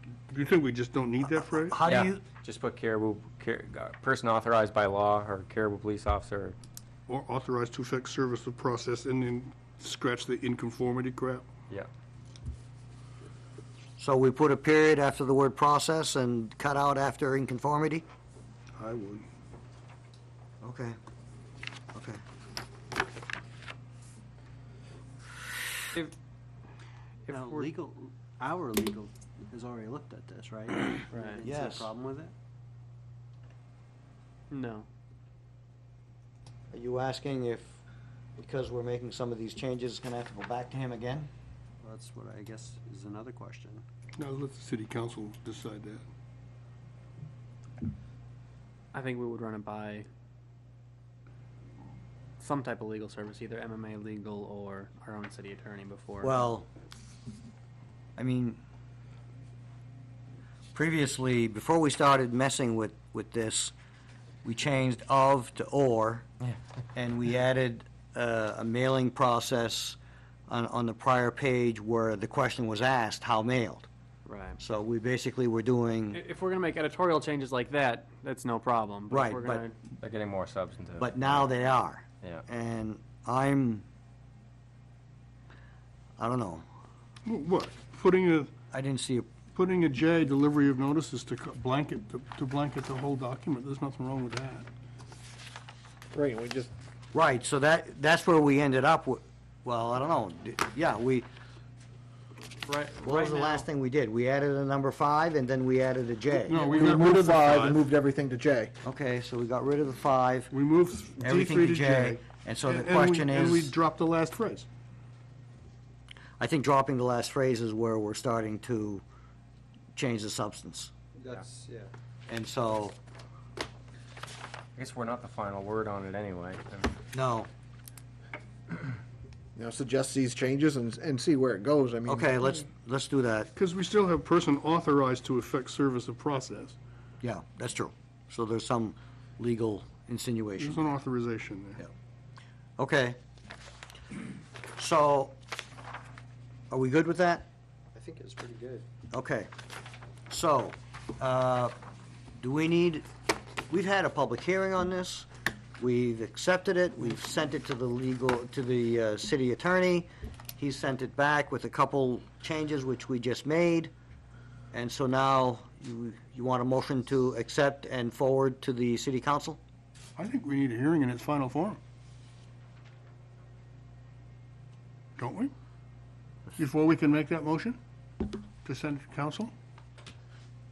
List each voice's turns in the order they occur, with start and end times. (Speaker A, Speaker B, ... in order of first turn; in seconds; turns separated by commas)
Speaker A: 0.3-1.8, Speaker B: 1.6-2.2, Speaker C: 1.8-6.6, Speaker A: 7.1-11.4, Speaker B: 14.0-18.1, Speaker A: 18.8-19.3, Speaker B: 20.6-21.0, Speaker B: 21.9-22.2, Speaker D: 27.2-27.7, Speaker E: 27.3-32.3, Speaker D: 31.1-31.4, Speaker B: 31.4-31.9, Speaker D: 34.5-34.9, Speaker B: 36.7-37.8, Speaker B: 38.4-41.3, Speaker E: 41.8-43.9, Speaker A: 44.2-46.0, Speaker D: 48.9-50.1, Speaker D: 52.4-56.5, Speaker B: 56.2-56.7, Speaker B: 58.2-58.6, Speaker B: 60.7-63.7, Speaker B: 64.4-66.3, Speaker B: 67.0-73.9, Speaker D: 74.2-74.6, Speaker B: 74.6-76.2, Speaker D: 76.1-79.8, Speaker B: 79.1-79.6, Speaker C: 80.0-81.5, Speaker B: 81.0-83.8, Speaker B: 86.2-86.6, Speaker A: 87.3-88.5, Speaker B: 88.7-89.3, Speaker A: 89.5-94.7, Speaker F: 96.1-96.7, Speaker B: 97.1-101.3, Speaker D: 102.6-103.7, Speaker B: 103.0-106.7, Speaker A: 106.5-107.8, Speaker F: 106.5-108.8, Speaker B: 108.8-110.5, Speaker A: 110.5-114.7, Speaker B: 111.2-113.8, Speaker B: 116.4-119.0, Speaker B: 120.0-120.9, Speaker E: 121.2-121.9, Speaker B: 122.3-123.0, Speaker C: 124.8-127.0, Speaker B: 127.1-127.5, Speaker F: 129.6-132.7, Speaker B: 132.1-133.5, Speaker A: 133.6-136.8, Speaker B: 137.2-140.9, Speaker A: 140.6-141.9, Speaker B: 142.8-143.2, Speaker B: 144.8-145.3, Speaker B: 146.7-147.5, Speaker E: 147.9-148.9, Speaker B: 149.1-149.5, Speaker B: 150.3-151.7, Speaker B: 152.4-153.1, Speaker B: 153.7-155.3, Speaker B: 155.8-163.9, Speaker B: 164.7-169.6, Speaker A: 170.2-171.8, Speaker A: 175.2-175.5, Speaker A: 176.6-177.8, Speaker A: 178.6-179.5